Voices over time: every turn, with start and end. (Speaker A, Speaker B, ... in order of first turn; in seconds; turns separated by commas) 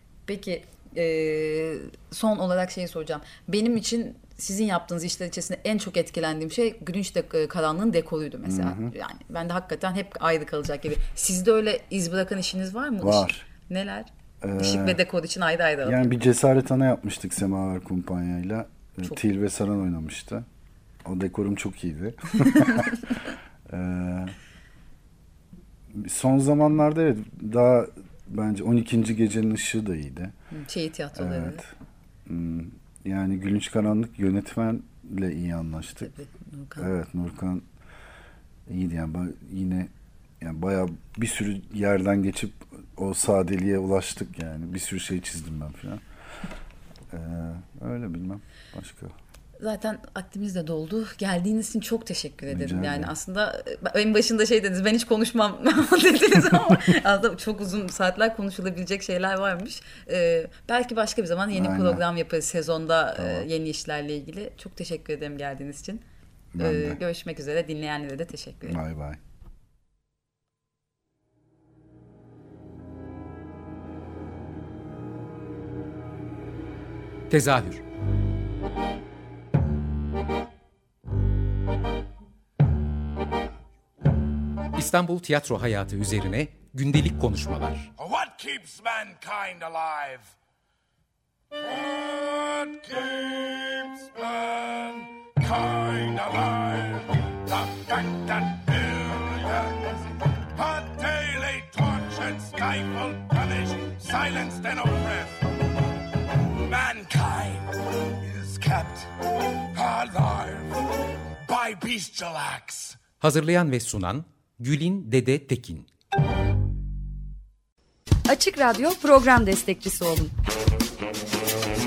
Speaker A: 0.3-16.1, Speaker B: 8.4-8.9, Speaker B: 13.0-13.4, Speaker B: 14.4-15.0, Speaker B: 15.8-20.4, Speaker B: 21.0-23.0, Speaker B: 23.7-24.4, Speaker B: 25.9-30.3, Speaker A: 30.5-31.6, Speaker B: 31.1-31.7, Speaker B: 32.2-36.1, Speaker A: 36.0-36.9, Speaker B: 36.8-37.6, Speaker B: 38.7-46.0, Speaker B: 47.1-49.1, Speaker A: 49.6-66.0, Speaker B: 52.5-53.1, Speaker B: 61.5-62.0, Speaker B: 63.2-63.5, Speaker B: 66.5-67.0, Speaker A: 66.6-68.8, Speaker B: 68.7-69.2, Speaker C: 77.3-77.8, Speaker C: 84.8-87.9, Speaker D: 88.0-90.3, Speaker D: 91.5-100.0, Speaker D: 100.5-105.4, Speaker D: 106.6-109.1, Speaker D: 109.7-110.8, Speaker D: 111.5-113.0, Speaker C: 113.2-115.9, Speaker E: 118.3-120.3